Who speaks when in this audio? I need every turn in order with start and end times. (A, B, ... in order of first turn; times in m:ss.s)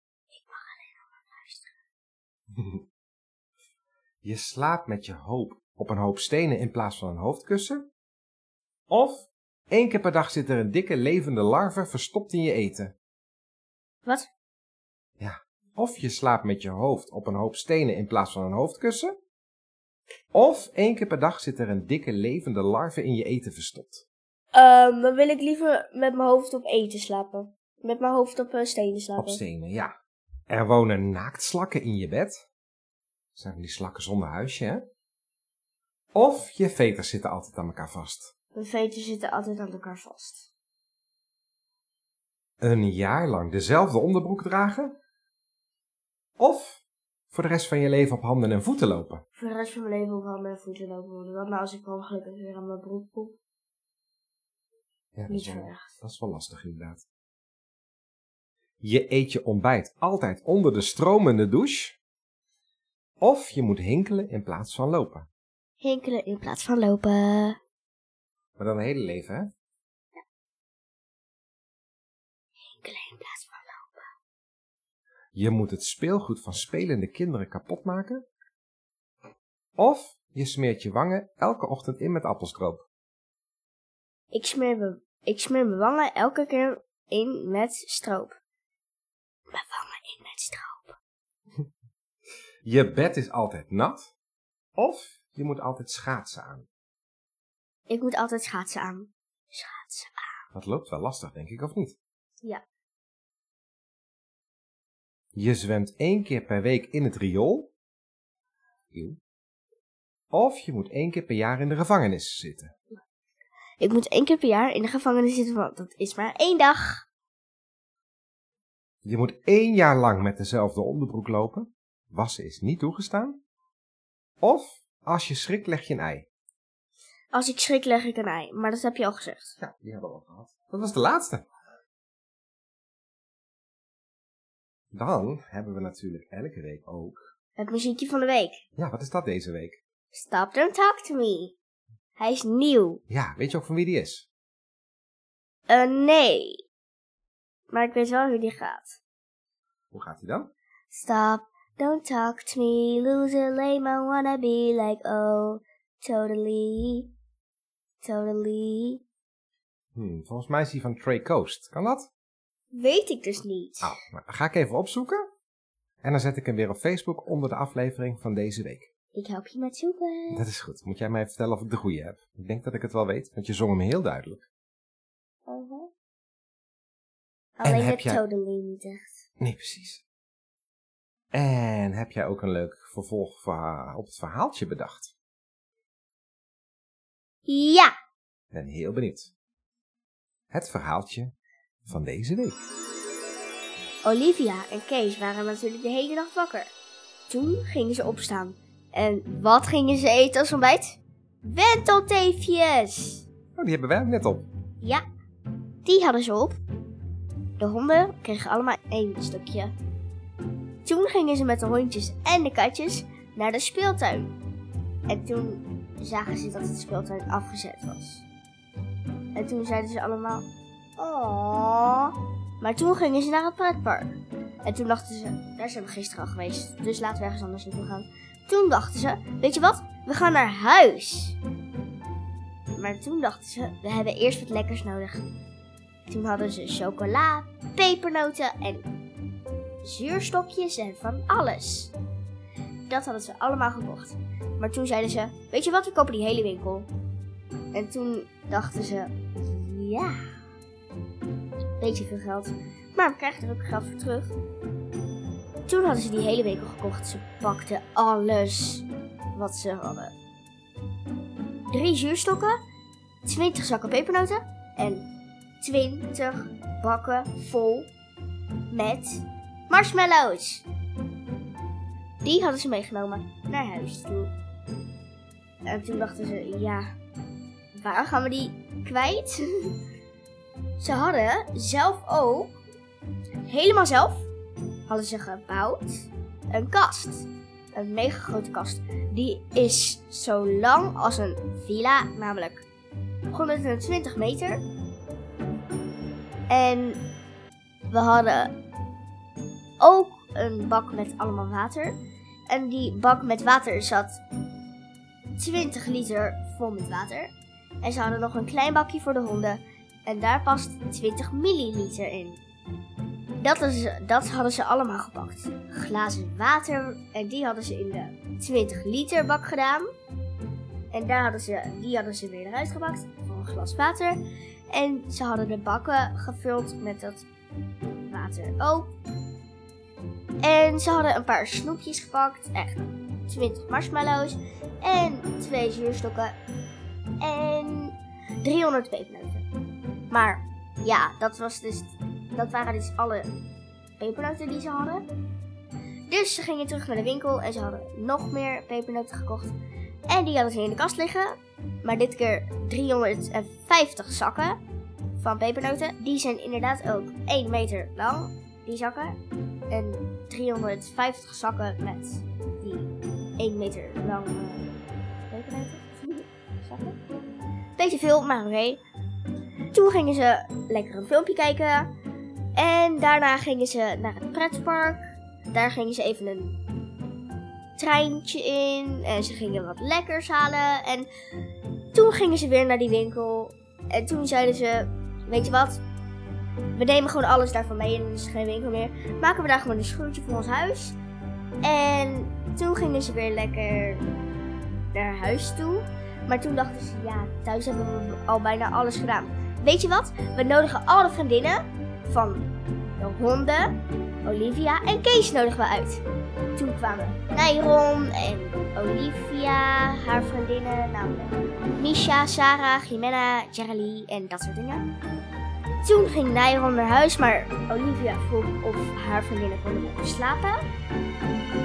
0:00.3-0:01.8 A
0:02.5-0:02.8 B
0:04.2-0:07.9 B
0:08.9-0:12.9 B
0:15.2-0:19.1 B
0:20.3-0:24.0 B
0:24.5-0:29.4 A
0:29.2-0:29.9 B
0:30.5-0:32.4 B
0:33.4-0:34.8 B
0:36.1-0:38.3 B
0:38.5-0:40.5 A
0:42.6-0:45.0 B
0:46.4-0:46.8 B
0:47.3-0:49.2 B
0:49.4-0:53.4 A
0:55.1-0:57.0 B
0:55.3-0:55.9 A
0:58.8-1:02.0 B
1:03.2-1:05.3 B
1:05.8-1:07.6 A
1:08.6-1:09.5 B
1:12.6-1:14.1 A
1:15.3-1:18.2 B
1:19.8-1:22.8 B
1:24.3-1:28.4 A
1:29.5-1:31.0 A
1:32.6-1:34.1 B
1:34.8-1:36.7 B
1:37.9-1:40.4 A
1:40.5-1:42.0 B
1:45.3-1:47.7 B
1:48.9-1:49.2 B
1:50.3-1:52.7 B
1:53.8-1:57.0 A
1:59.0-2:03.4 B
2:04.4-2:06.3 B
2:07.3-2:09.6 A
2:09.6-2:11.4 B
2:14.9-2:17.3 B
2:17.6-2:18.6 A
2:18.8-2:19.8 B
2:20.1-2:21.5 A
2:22.2-2:23.0 A
2:23.1-2:24.3 B
2:25.7-2:26.6 A
2:27.7-2:29.0 A
2:29.9-2:30.5 B
2:30.9-2:37.1 A
2:38.0-2:39.0 A
2:40.0-2:42.1 B
2:42.7-2:44.0 A
2:43.8-2:45.2 B
2:46.0-2:48.9 B
2:49.1-2:50.4 A
2:50.3-2:54.4 B
2:55.5-2:55.9 A
2:57.6-2:59.2 A
2:57.6-2:58.2 B
2:59.4-3:00.0 B
3:01.3-3:05.1 B
3:07.4-3:07.9 A
3:08.5-3:09.3 B
3:10.5-3:11.3 B
3:11.9-3:12.6 B
3:14.0-3:16.7 A
3:17.3-3:23.3 A
3:23.6-3:24.5 B
3:25.8-3:26.6 A
3:27.6-3:29.7 A
3:30.8-3:34.3 A
3:35.1-3:38.2 A
3:39.3-3:51.4 A
3:52.8-3:55.2 A
3:56.1-3:58.9 A
3:59.8-4:01.9 A
4:02.9-4:06.9 A
4:07.7-4:10.2 A
4:11.8-4:14.3 A
4:15.7-4:20.2 A
4:21.7-4:22.5 A
4:23.2-4:25.1 A
4:25.6-4:27.9 A
4:28.7-4:30.6 A
4:32.2-4:34.3 A
4:35.6-4:36.8 A
4:37.7-4:39.7 A
4:40.8-4:42.6 A
4:43.4-4:44.3 A
4:44.9-4:52.6 A
4:53.3-4:54.6 A
4:56.5-4:57.0 A
4:57.9-4:58.5 A
4:59.8-5:04.2 A
5:05.4-5:12.4 A
5:13.4-5:19.9 A
5:20.9-5:24.2 A
5:24.7-5:27.2 A
5:28.0-5:28.9 A
5:30.4-5:36.4 A
5:37.2-5:39.4 A
5:40.1-5:43.3 A
5:44.0-5:45.0 A
5:46.1-5:49.6 A
5:50.1-5:54.6 A
5:55.2-5:59.2 A
5:59.7-6:04.7 A
6:05.3-6:07.0 A
6:07.8-6:08.8 A
6:09.7-6:11.9 A
6:12.6-6:15.0 A
6:15.5-6:16.6 A
6:17.8-6:21.1 A
6:21.9-6:25.8 A
6:26.7-6:31.0 A
6:31.6-6:34.0 A
6:34.9-6:46.0 A
6:46.5-6:54.9 A
6:55.8-7:00.6 A